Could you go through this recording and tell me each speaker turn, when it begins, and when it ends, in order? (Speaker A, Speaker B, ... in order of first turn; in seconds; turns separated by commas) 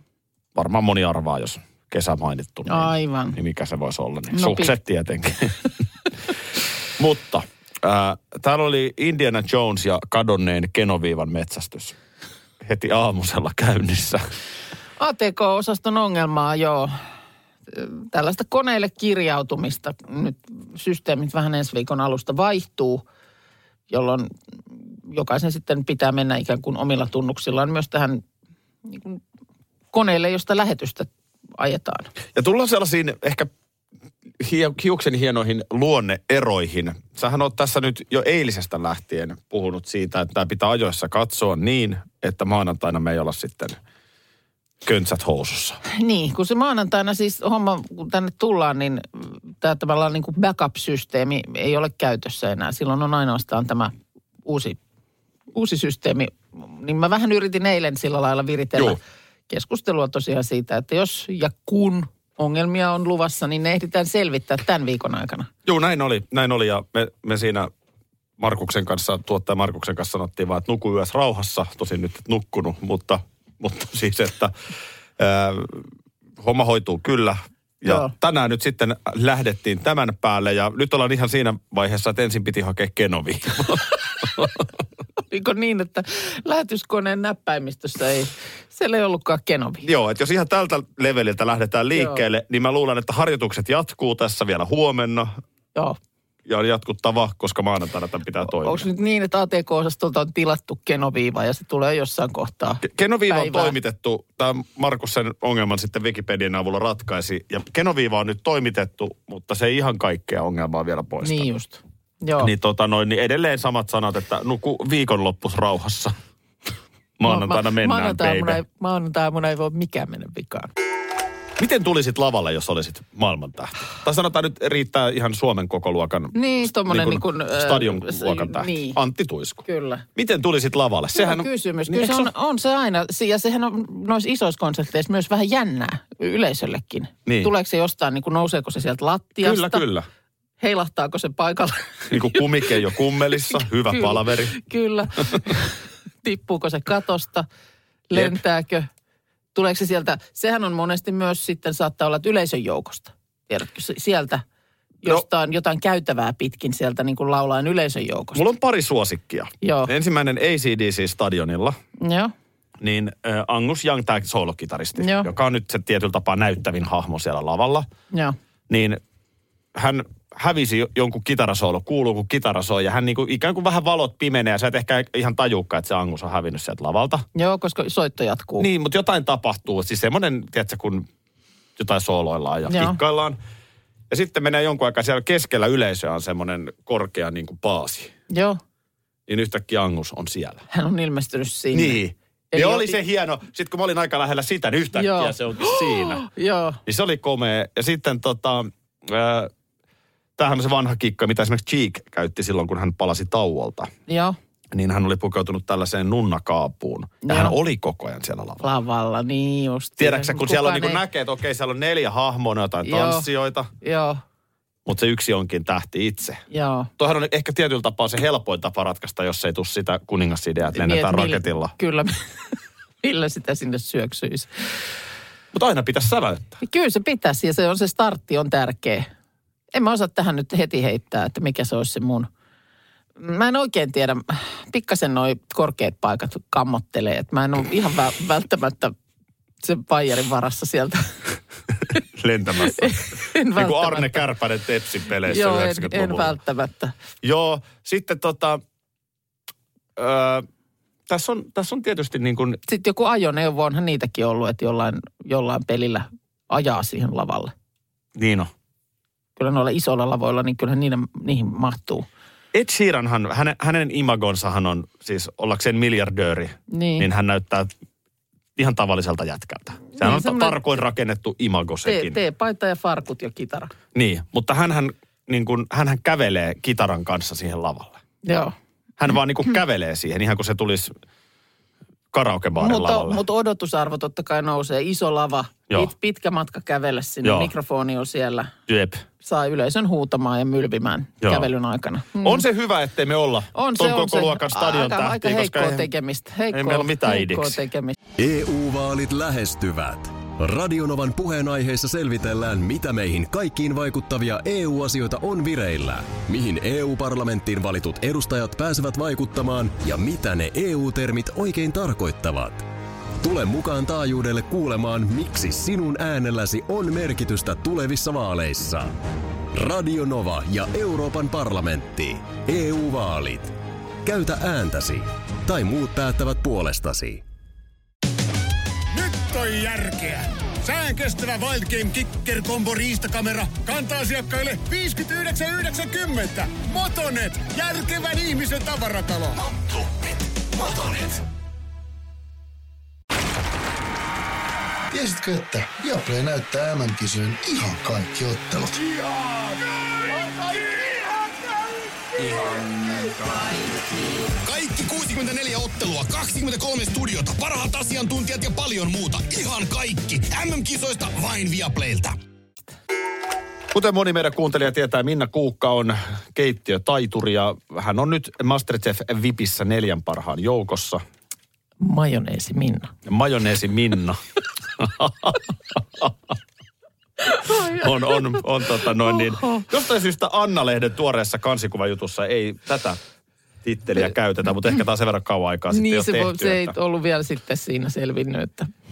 Speaker A: 0.5-5.5, Speaker B: 2.7-3.4, Speaker B: 4.3-4.7, Speaker A: 7.0-11.9, Speaker A: 12.6-14.2, Speaker B: 15.0-16.9, Speaker B: 17.7-23.0, Speaker B: 23.9-24.3, Speaker B: 25.1-28.2, Speaker B: 28.9-29.2, Speaker B: 29.9-32.1, Speaker A: 32.3-33.5, Speaker A: 34.4-43.8, Speaker A: 44.8-45.8, Speaker B: 45.9-53.9, Speaker B: 54.4-54.8, Speaker B: 55.5-65.5, Speaker A: 65.6-67.7, Speaker A: 68.4-74.5, Speaker A: 75.2-75.8, Speaker A: 76.4-84.7, Speaker B: 77.8-78.1, Speaker B: 85.3-89.9, Speaker A: 89.8-95.3, Speaker B: 91.9-92.2, Speaker A: 96.5-98.8, Speaker B: 98.5-103.8, Speaker A: 102.8-111.5, Speaker B: 111.2-112.5, Speaker A: 112.4-116.1, Speaker A: 117.2-118.6, Speaker B: 117.2-120.7, Speaker A: 121.6-129.6, Speaker B: 126.3-129.0, Speaker B: 129.6-130.0, Speaker A: 130.2-132.3, Speaker B: 131.1-139.8, Speaker A: 137.2-137.5, Speaker A: 139.4-140.1, Speaker B: 140.6-142.7, Speaker A: 142.1-144.6, Speaker B: 143.6-147.4, Speaker B: 148.1-148.9, Speaker A: 148.1-148.4, Speaker B: 149.5-154.4, Speaker B: 155.0-158.4, Speaker A: 158.3-161.8, Speaker B: 159.6-159.9, Speaker B: 162.0-162.3, Speaker A: 162.8-167.9, Speaker B: 165.0-165.3, Speaker A: 168.7-169.0, Speaker A: 169.7-177.2, Speaker B: 177.3-178.7, Speaker A: 178.6-181.1, Speaker A: 181.8-183.4, Speaker B: 182.7-183.0, Speaker A: 184.1-188.1, Speaker B: 188.3-188.6, Speaker A: 189.3-190.6, Speaker B: 190.7-192.0, Speaker A: 191.7-196.2, Speaker B: 192.5-193.0, Speaker B: 194.9-196.8, Speaker A: 196.8-199.5, Speaker A: 200.4-203.9, Speaker B: 204.1-204.3, Speaker A: 204.7-208.6, Speaker B: 207.2-207.6, Speaker B: 208.6-211.0, Speaker A: 210.0-213.7, Speaker B: 212.8-213.3, Speaker B: 213.8-214.2, Speaker A: 214.8-216.4, Speaker B: 216.5-216.9, Speaker A: 217.0-221.7, Speaker B: 220.7-224.5, Speaker A: 225.5-226.6, Speaker B: 226.6-229.1, Speaker B: 229.7-232.3, Speaker B: 233.2-238.9, Speaker B: 239.6-241.3, Speaker A: 241.9-246.3, Speaker B: 242.6-244.2, Speaker B: 245.2-246.9, Speaker A: 247.2-248.6, Speaker A: 249.9-250.4, Speaker A: 251.1-252.6, Speaker B: 252.7-257.5, Speaker A: 258.1-258.5, Speaker B: 259.4-262.1, Speaker A: 262.5-267.7, Speaker B: 266.7-267.1, Speaker A: 268.6-272.2, Speaker B: 269.9-270.6, Speaker B: 271.8-273.7, Speaker A: 273.9-278.0, Speaker B: 278.2-278.5, Speaker A: 279.0-280.9, Speaker A: 282.1-283.2, Speaker B: 282.6-288.5, Speaker A: 287.2-287.5, Speaker A: 288.7-289.0, Speaker B: 289.2-292.4, Speaker A: 291.2-291.5, Speaker A: 292.2-295.9, Speaker B: 293.5-297.9, Speaker A: 296.5-297.6, Speaker C: 298.2-312.6, Speaker C: 313.2-318.9, Speaker C: 319.5-327.2, Speaker D: 328.9-339.5, Speaker E: 340.7-341.1, Speaker E: 344.9-349.0, Speaker E: 352.2-353.3, Speaker F: 354.4-362.1, Speaker A: 363.7-371.0, Speaker B: 371.8-372.9, Speaker A: 373.1-374.2, Speaker A: 374.8-376.3, Speaker B: 377.2-379.6, Speaker A: 377.5-383.0, Speaker A: 383.6-386.7, Speaker B: 385.7-388.7